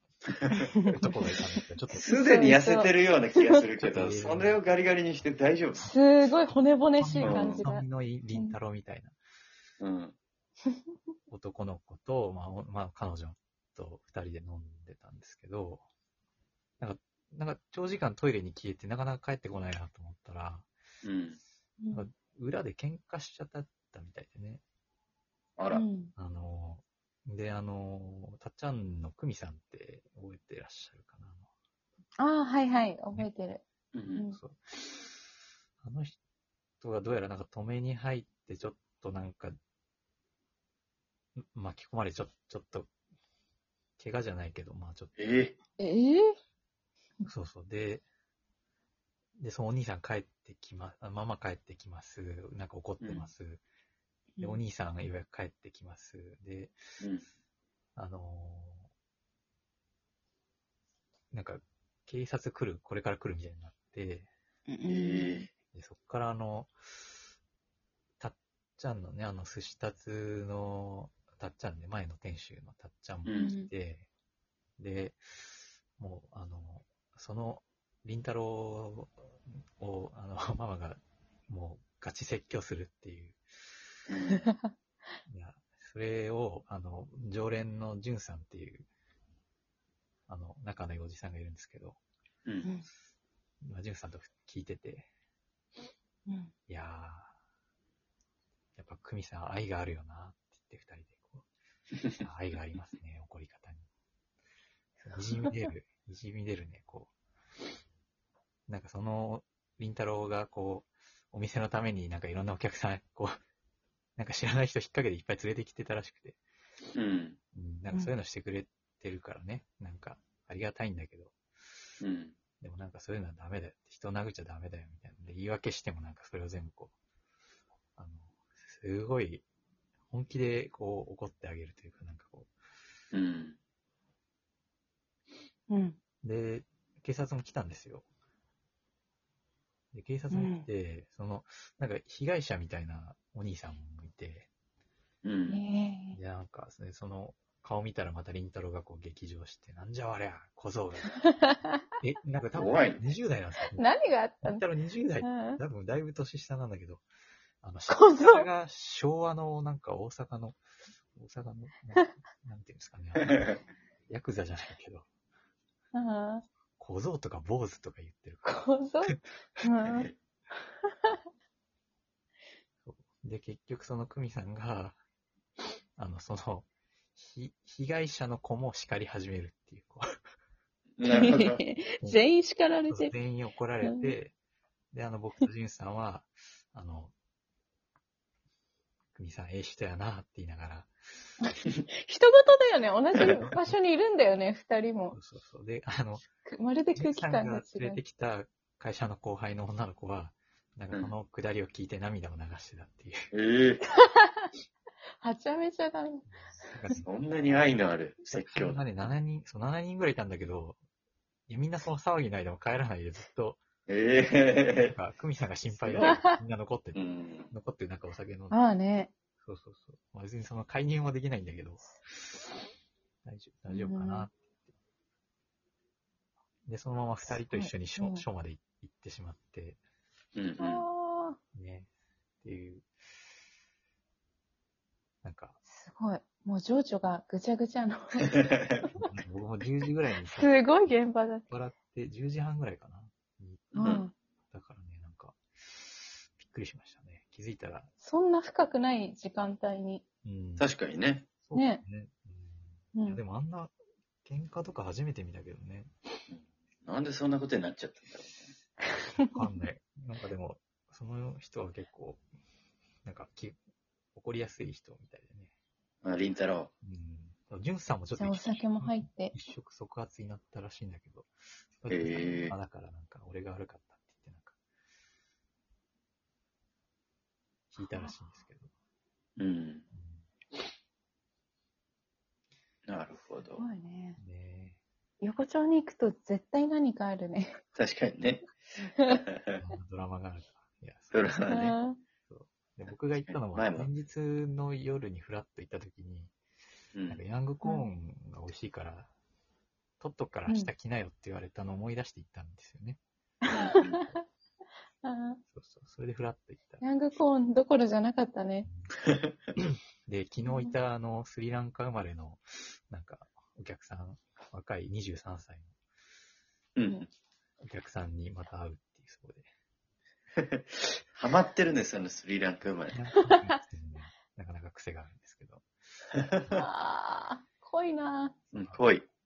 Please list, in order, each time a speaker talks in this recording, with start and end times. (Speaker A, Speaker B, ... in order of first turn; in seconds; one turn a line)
Speaker A: 0.7-1.1
Speaker B: 0.9-2.1
Speaker A: 2.0-3.6
Speaker C: 2.0-5.9
Speaker B: 3.8-4.6
Speaker A: 5.8-8.6
Speaker B: 7.0-9.2
Speaker C: 7.2-7.7
Speaker C: 9.8-10.2
Speaker B: 11.3-15.8
Speaker B: 16.8-20.7
Speaker C: 21.0-21.4
Speaker A: 21.8-22.1
Speaker B: 21.9-24.6
Speaker C: 25.6-25.9
Speaker A: 25.7-26.1
Speaker B: 26.2-31.5
Speaker A: 32.2-34.4
Speaker C: 33.9-34.2
Speaker B: 34.3-35.1
Speaker B: 35.8-36.2
Speaker B: 36.8-39.6
Speaker B: 41.4-42.9
Speaker B: 44.0-45.4
Speaker C: 45.2-45.5
Speaker A: 45.8-46.4
Speaker B: 47.3-48.1
Speaker B: 49.4-53.6
Speaker C: 53.0-53.3
Speaker B: 54.4-56.7
Speaker B: 58.0-58.9
Speaker B: 61.3-64.3
Speaker A: 64.7-65.5
Speaker C: 64.9-65.5
Speaker B: 65.7-66.7
Speaker B: 68.2-74.1
Speaker C: 73.2-73.5
Speaker A: 73.3-73.7
Speaker B: 74.8-83.4
Speaker C: 84.1-84.5
Speaker B: 85.3-88.9
Speaker B: 90.3-92.0
Speaker B: 93.6-95.1
Speaker A: 96.3-96.5
Speaker B: 96.7-97.3
Speaker B: 98.8-101.5
Speaker B: 102.2-103.9
Speaker B: 105.0-107.1
Speaker B: 108.7-113.4
Speaker B: 114.2-116.4
Speaker C: 117.0-117.4
Speaker B: 117.5-121.3
Speaker C: 122.0-122.4
Speaker B: 122.6-126.9
Speaker B: 128.0-129.4
Speaker B: 130.1-132.5
Speaker C: 133.1-133.6
Speaker A: 135.7-136.0
Speaker B: 136.2-138.1
Speaker B: 139.9-144.5
Speaker A: 140.3-140.7
Speaker C: 145.2-145.6
Speaker A: 145.5-146.2
Speaker B: 146.1-151.4
Speaker A: 151.1-151.8
Speaker B: 152.0-153.8
Speaker C: 152.6-153.0
Speaker A: 152.6-152.8
Speaker A: 153.8-154.6
Speaker B: 154.4-157.0
Speaker A: 155.2-155.6
Speaker B: 157.6-160.6
Speaker A: 157.9-158.5
Speaker B: 161.2-163.5
Speaker B: 164.1-165.1
Speaker A: 165.9-166.4
Speaker B: 166.8-169.2
Speaker A: 168.4-170.1
Speaker A: 170.9-171.2
Speaker B: 172.8-175.0
Speaker B: 176.0-180.1
Speaker C: 181.0-181.6
Speaker A: 181.1-183.1
Speaker B: 181.1-181.4
Speaker B: 182.9-184.3
Speaker A: 183.8-184.1
Speaker B: 184.9-187.1
Speaker B: 189.2-190.9
Speaker A: 191.4-195.2
Speaker B: 193.2-193.5
Speaker B: 195.1-196.2
Speaker A: 196.5-198.0
Speaker B: 196.9-203.2
Speaker C: 203.3-203.8
Speaker A: 204.0-204.5
Speaker A: 205.2-206.3
Speaker B: 206.3-207.6
Speaker C: 207.0-208.8
Speaker B: 208.3-210.8
Speaker B: 211.5-213.6
Speaker C: 213.9-215.0
Speaker B: 214.7-218.6
Speaker C: 215.7-216.2
Speaker A: 216.0-216.4
Speaker C: 216.9-217.5
Speaker A: 218.5-219.1
Speaker B: 219.4-222.5
Speaker B: 223.2-224.7
Speaker A: 223.7-224.3
Speaker B: 226.7-229.8
Speaker A: 227.3-228.3
Speaker C: 230.4-230.8
Speaker A: 230.6-231.4
Speaker B: 231.5-231.9
Speaker B: 232.4-232.9
Speaker B: 235.2-235.6
Speaker A: 235.7-238.5
Speaker B: 238.9-241.0
Speaker A: 240.3-241.5
Speaker B: 241.5-244.0
Speaker A: 243.8-244.1
Speaker C: 243.8-244.1
Speaker B: 244.5-247.9
Speaker A: 248.0-250.0
Speaker B: 250.2-250.7
Speaker C: 250.6-251.3
Speaker B: 251.4-253.7
Speaker A: 251.5-251.8
Speaker A: 252.9-253.2
Speaker B: 254.2-255.9
Speaker C: 256.3-258.5
Speaker B: 259.3-262.2
Speaker B: 263.1-263.6
Speaker B: 264.1-265.5
Speaker C: 266.0-266.7
Speaker B: 266.8-274.6
Speaker A: 268.1-269.3
Speaker C: 271.9-272.6
Speaker B: 277.7-278.7
Speaker A: 277.9-278.1
Speaker C: 279.4-279.9
Speaker B: 279.9-280.3
Speaker C: 282.9-283.6
Speaker A: 283.6-284.2
Speaker B: 284.2-284.8
Speaker A: 285.2-287.6
Speaker C: 287.8-288.5
Speaker A: 288.8-289.2
Speaker C: 289.1-289.6
Speaker B: 289.5-291.3
Speaker C: 291.1-291.8
Speaker A: 291.4-292.0
Speaker B: 292.3-296.3
Speaker C: 293.1-293.9
Speaker C: 296.9-297.2
Speaker B: 297.1-299.1
Speaker B: 300.0-303.0
Speaker A: 303.5-304.2
Speaker C: 303.5-304.0
Speaker A: 305.0-305.4
Speaker B: 305.5-306.8
Speaker A: 306.8-308.7
Speaker B: 309.6-315.8
Speaker A: 310.4-310.7
Speaker C: 316.8-317.1
Speaker B: 317.6-319.5
Speaker C: 320.4-323.0
Speaker B: 322.9-325.6
Speaker A: 326.5-328.4
Speaker C: 328.5-329.1